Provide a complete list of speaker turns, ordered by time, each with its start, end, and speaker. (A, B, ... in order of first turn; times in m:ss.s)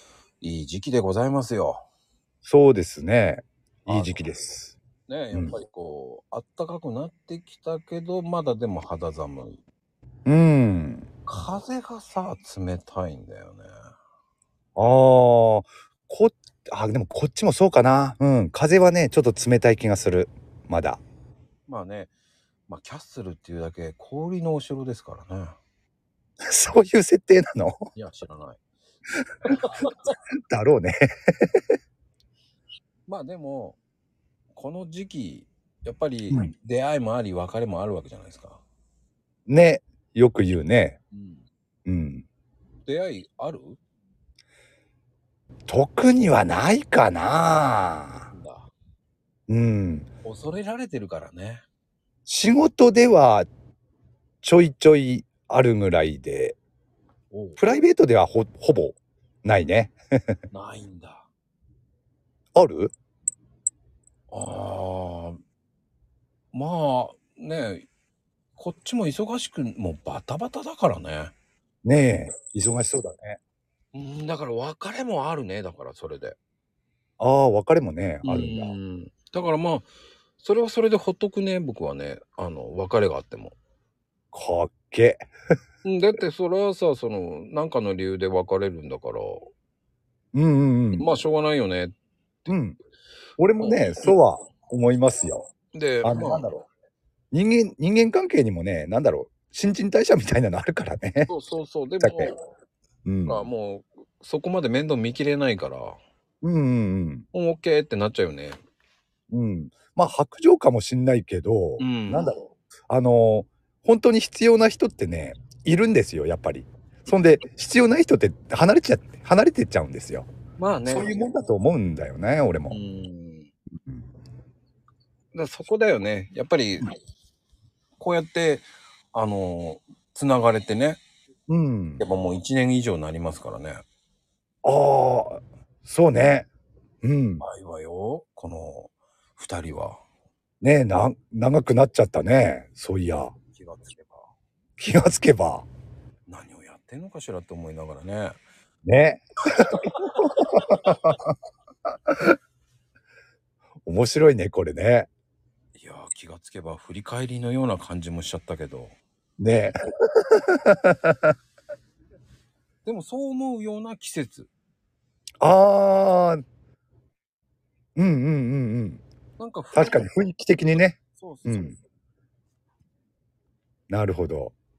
0:00.4-0:01.8 A
0:02.4-0:04.8 B
0:03.9-0:04.3 A
0:05.1-0:09.6 A
0:10.3-0:11.1 B
0:11.3-0:13.7 A
0:14.8-0:21.0 B
0:21.7-0:22.1 A
0:22.7-0:25.6 A
0:26.4-0:27.9 B
0:28.0-0:28.6 A
0:29.5-0:30.1 A
0:30.5-0:31.6 B
0:33.1-0:33.8 A
0:34.5-0:38.6 A
0:39.5-0:41.0 B
0:41.1-0:41.5 A
0:41.9-0:42.3 B
0:42.9-0:43.8 A
0:45.7-0:48.3 B
0:48.3-0:48.7 A
0:49.5-0:50.1 B
0:50.2-0:51.6 A
0:52.3-0:53.5 B
0:54.4-0:56.6 B
0:57.3-0:57.6 A
0:57.6-1:00.4 B
1:00.5-1:01.3 A
1:02.6-1:02.9 B
1:04.3-1:05.4 A
1:06.5-1:07.9 A
1:08.6-1:11.3 A
1:11.8-1:13.4 B
1:13.9-1:16.4 A
1:17.2-1:18.7 B
1:18.2-1:19.9 A
1:20.4-1:23.6 A
1:24.3-1:25.2 B
1:25.8-1:29.5 A
1:30.3-1:31.1 B
1:31.0-1:31.9 A
1:32.5-1:32.8 B
1:33.4-1:35.5 B
1:33.6-1:34.2 A
1:35.7-1:36.5 A
1:36.0-1:36.7 B
1:37.3-1:41.3 B
1:41.3-1:42.4 A
1:42.0-1:42.3 B
1:43.1-1:43.5 B
1:43.3-1:46.0 A
1:46.4-1:47.2 B
1:47.3-1:48.6 A
1:49.3-2:00.3 B
1:51.8-1:52.4 A
2:00.6-2:01.2 A
2:00.9-2:02.8 B
2:02.7-2:03.5 A
2:05.3-2:06.9 A
2:08.0-2:11.0 A
2:11.5-2:12.0 B
2:12.0-2:13.8 A
2:14.6-2:16.5 B
2:17.0-2:17.4 B
2:17.4-2:20.0 A
2:20.6-2:23.3 B
2:23.5-2:24.3 A
2:24.8-2:25.7 B
2:26.3-2:28.4 A
2:28.8-2:31.3 B
2:29.7-2:30.3 A
2:33.8-2:35.1 B
2:35.8-2:39.0 A
2:39.4-2:41.3 B
2:42.8-2:44.5 A
2:45.4-2:46.4 B
2:48.0-2:49.0 B
2:49.4-2:50.1 A
2:49.7-2:51.8 B
2:51.2-2:51.8 A
2:53.9-2:54.5 B